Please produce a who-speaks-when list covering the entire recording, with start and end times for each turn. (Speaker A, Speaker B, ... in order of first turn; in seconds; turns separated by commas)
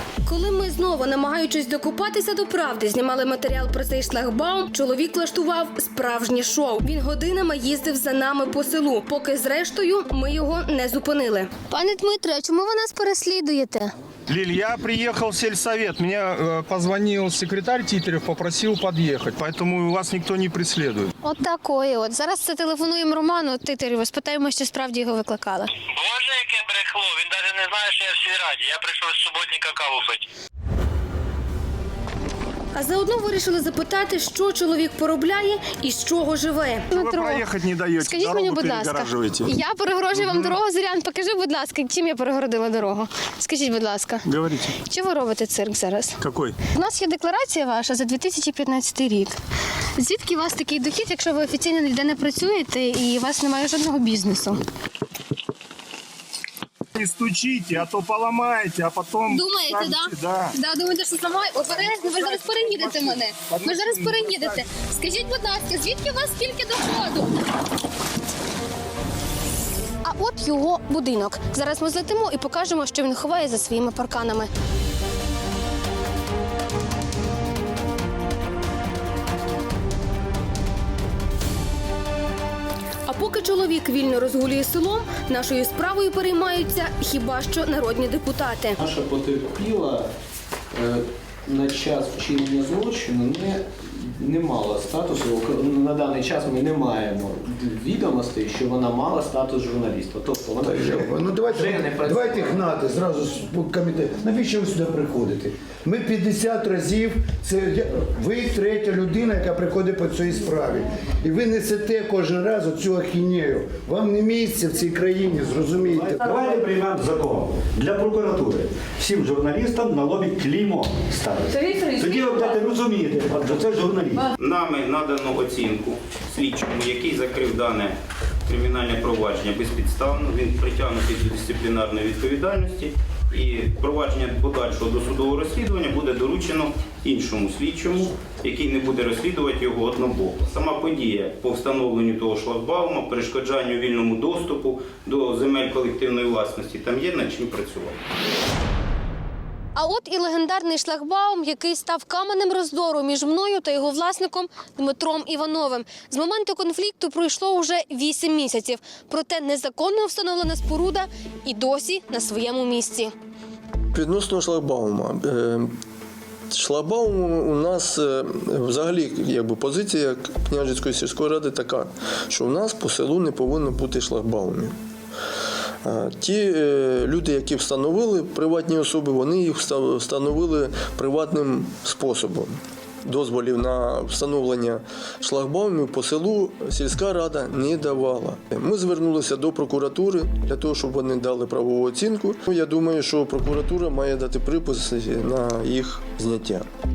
Speaker A: 0.3-13.9, Speaker B: 14.3-21.1, Speaker A: 21.2-25.7, Speaker C: 25.9-30.3, Speaker A: 32.7-37.5, Speaker B: 36.9-39.5, Speaker A: 38.0-44.3, Speaker B: 40.1-40.6, Speaker B: 44.3-44.7, Speaker A: 44.8-49.4, Speaker B: 46.2-46.5, Speaker A: 50.0-54.6, Speaker B: 57.0-60.5, Speaker A: 59.3-67.4, Speaker B: 62.2-64.6, Speaker A: 70.0-74.5, Speaker A: 83.1-88.8, Speaker D: 88.8-90.1, Speaker D: 90.8-102.7, Speaker E: 100.6-116.4, Speaker F: 115.8-124.3, Speaker G: 124.4-128.0, Speaker G: 128.5-148.0, Speaker A: 149.8-163.1, Speaker H: 163.9-165.7, Speaker H: 166.5-174.8, Speaker H: 175.8-196.7